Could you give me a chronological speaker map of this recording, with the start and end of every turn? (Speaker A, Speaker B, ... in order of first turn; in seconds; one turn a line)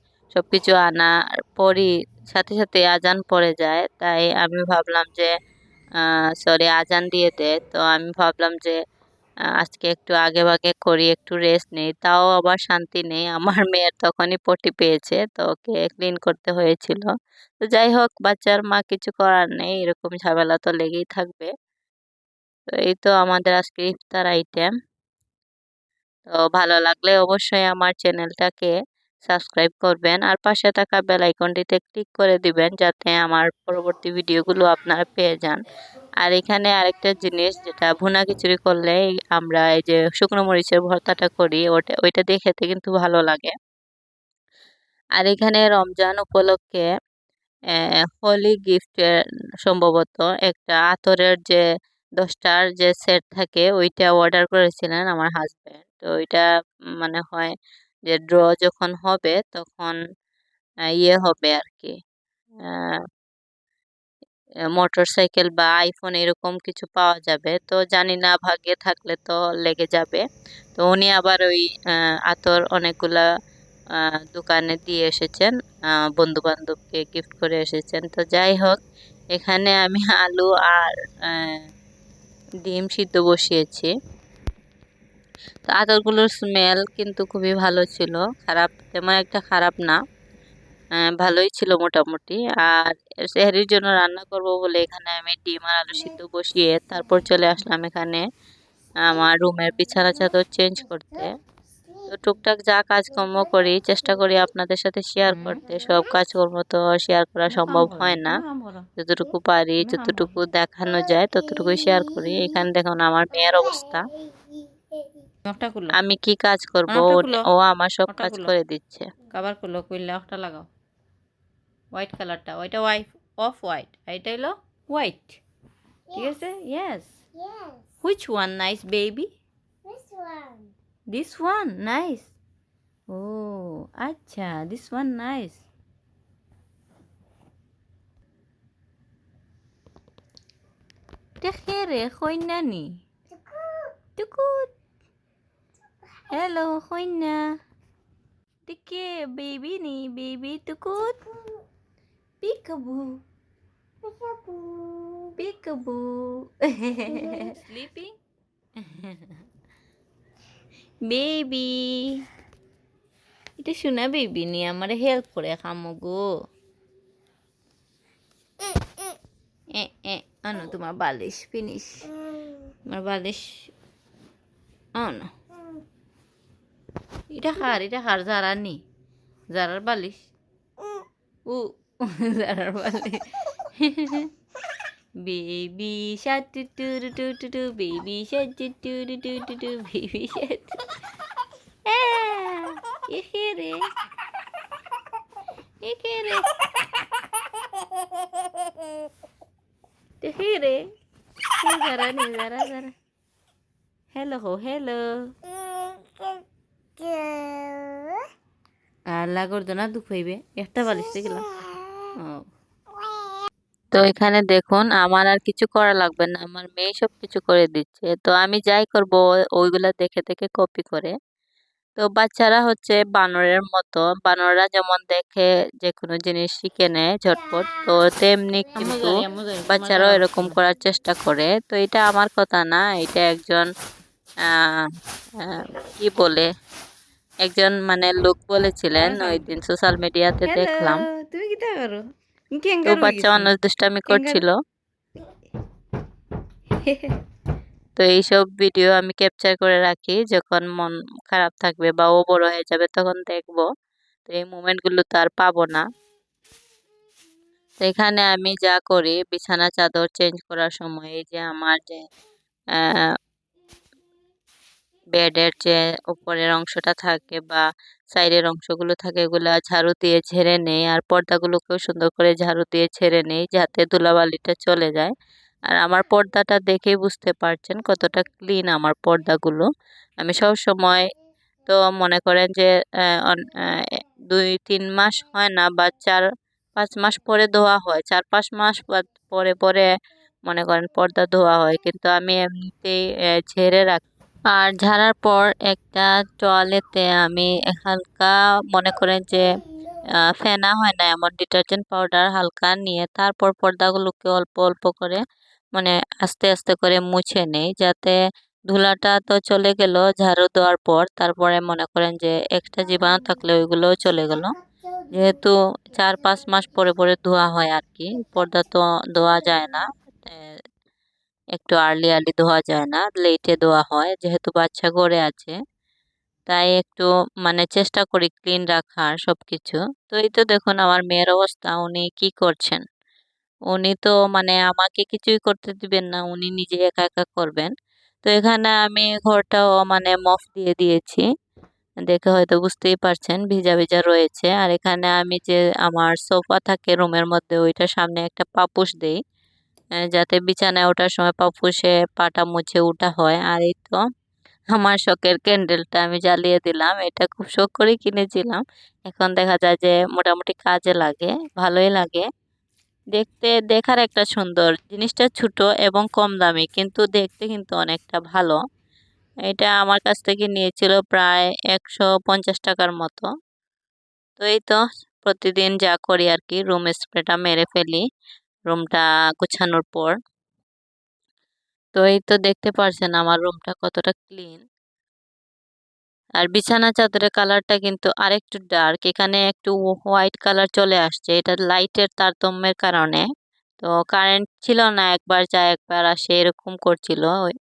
Speaker A: 0.3-5.3
Speaker A: 6.0-8.8
Speaker A: 9.6-17.1
Speaker A: 17.6-21.5
Speaker A: 22.8-24.7
Speaker A: 26.3-35.6
Speaker A: 36.2-43.5
Speaker A: 45.2-46.9
Speaker A: 47.8-51.6
Speaker A: 52.2-56.5
Speaker A: 57.0-57.5
Speaker A: 58.1-60.0
Speaker A: 61.0-62.0
Speaker A: 62.6-63.0
Speaker A: 64.8-70.2
Speaker A: 70.8-73.2
Speaker A: 74.0-78.8
Speaker A: 79.3-81.6
Speaker A: 82.6-83.9
Speaker A: 85.7-90.0
Speaker A: 91.2-98.3
Speaker A: 99.0-101.3
Speaker B: 99.1-99.5
Speaker A: 102.1-108.4
Speaker C: 105.3-105.6
Speaker C: 107.5-108.9
Speaker A: 109.0-114.1
Speaker C: 109.8-110.3
Speaker B: 110.9-112.7
Speaker B: 113.3-115.2
Speaker C: 115.5-116.0
Speaker A: 115.9-119.1
Speaker C: 116.9-117.5
Speaker C: 118.1-118.5
Speaker C: 119.3-120.7
Speaker C: 121.9-125.4
Speaker B: 126.1-126.4
Speaker C: 126.1-127.1
Speaker B: 127.3-128.0
Speaker C: 128.0-129.3
Speaker B: 129.8-130.7
Speaker C: 131.1-132.3
Speaker C: 133.1-135.7
Speaker C: 141.4-143.0
Speaker B: 143.3-143.9
Speaker C: 144.2-144.7
Speaker B: 146.0-146.4
Speaker C: 146.3-147.6
Speaker C: 148.7-151.2
Speaker B: 151.0-151.6
Speaker C: 152.4-153.2
Speaker B: 154.0-155.4
Speaker C: 155.4-158.2
Speaker B: 157.1-157.6
Speaker C: 158.8-159.3
Speaker C: 161.0-162.2
Speaker C: 163.6-166.4
Speaker C: 169.7-172.1
Speaker B: 172.1-172.7
Speaker C: 172.9-173.7
Speaker C: 174.9-175.3
Speaker C: 177.3-178.8
Speaker C: 179.5-180.3
Speaker C: 181.5-184.3
Speaker C: 185.2-190.8
Speaker C: 191.8-193.9
Speaker C: 195.8-196.5
Speaker B: 197.7-198.9
Speaker C: 200.2-200.9
Speaker C: 201.6-202.9
Speaker C: 204.1-205.3
Speaker B: 205.6-206.4
Speaker B: 207.0-208.2
Speaker C: 209.1-211.4
Speaker B: 210.9-211.7
Speaker C: 212.2-212.5
Speaker A: 213.9-221.1
Speaker A: 222.0-233.7
Speaker C: 228.8-230.6
Speaker A: 234.4-234.9
Speaker A: 235.4-236.5
Speaker A: 237.4-241.1
Speaker C: 239.0-239.5
Speaker C: 240.4-243.5
Speaker A: 242.8-244.6
Speaker C: 244.1-244.4
Speaker C: 246.7-247.2
Speaker A: 248.0-253.7
Speaker A: 254.2-255.9
Speaker A: 257.8-262.0
Speaker A: 262.8-263.1
Speaker A: 265.1-267.6
Speaker A: 268.1-275.1
Speaker A: 275.7-279.7
Speaker A: 280.2-281.1
Speaker A: 281.7-286.2
Speaker A: 286.8-289.9
Speaker A: 290.5-299.5
Speaker A: 300.1-305.2
Speaker A: 305.8-308.2
Speaker A: 308.7-314.6
Speaker B: 314.6-315.3
Speaker A: 315.1-320.6
Speaker A: 321.5-325.6
Speaker A: 326.5-332.8
Speaker A: 333.7-337.7
Speaker A: 338.2-341.3
Speaker A: 342.1-349.2
Speaker A: 350.1-354.0
Speaker A: 354.7-362.3
Speaker A: 363.1-368.6
Speaker A: 369.5-373.3
Speaker A: 374.4-378.1
Speaker A: 378.7-380.2
Speaker A: 381.9-384.6
Speaker A: 386.4-393.3
Speaker A: 393.8-397.5